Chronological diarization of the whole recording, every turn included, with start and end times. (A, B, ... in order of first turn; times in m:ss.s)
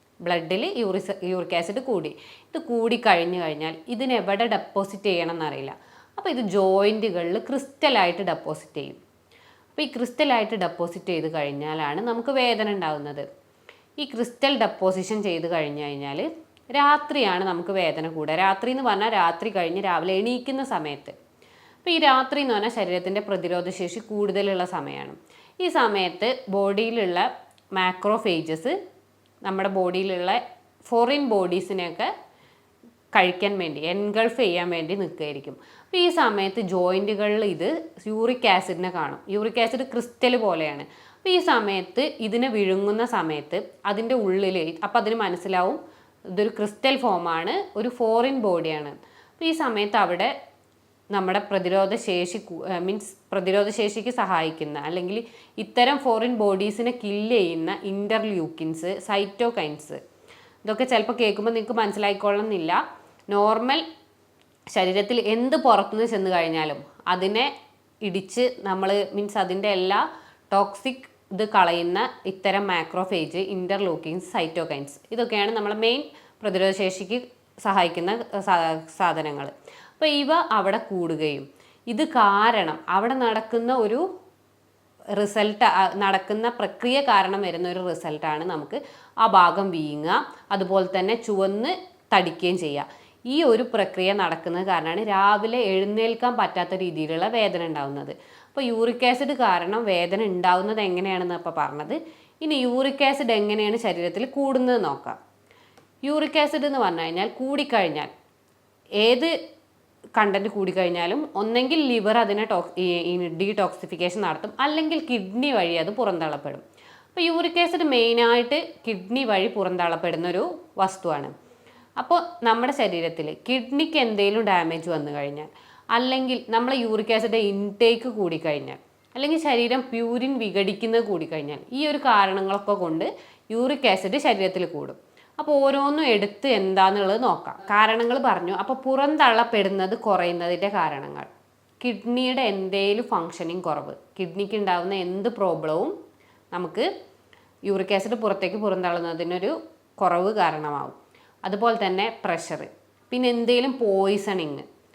0:00.2-0:09.0 A
0:09.8-0:13.2 A
0:14.0-0:21.2 A
0:21.8-0:28.8 A
0:29.4-0:32.1 A
0:33.1-0:45.8 A
0:46.3-0:50.3 A
0:51.1-1:00.0 A
1:00.6-1:02.8 A
1:03.3-1:03.8 A
1:04.7-1:07.5 A
1:08.0-1:24.0 A
1:25.1-1:45.2 A
1:46.0-1:48.1 A
1:49.0-1:49.3 A
1:50.2-1:56.6 A
1:57.1-2:01.3 A
2:02.0-2:21.3 A
2:21.8-2:25.9 A
2:26.5-2:26.9 A
2:27.6-2:34.6 A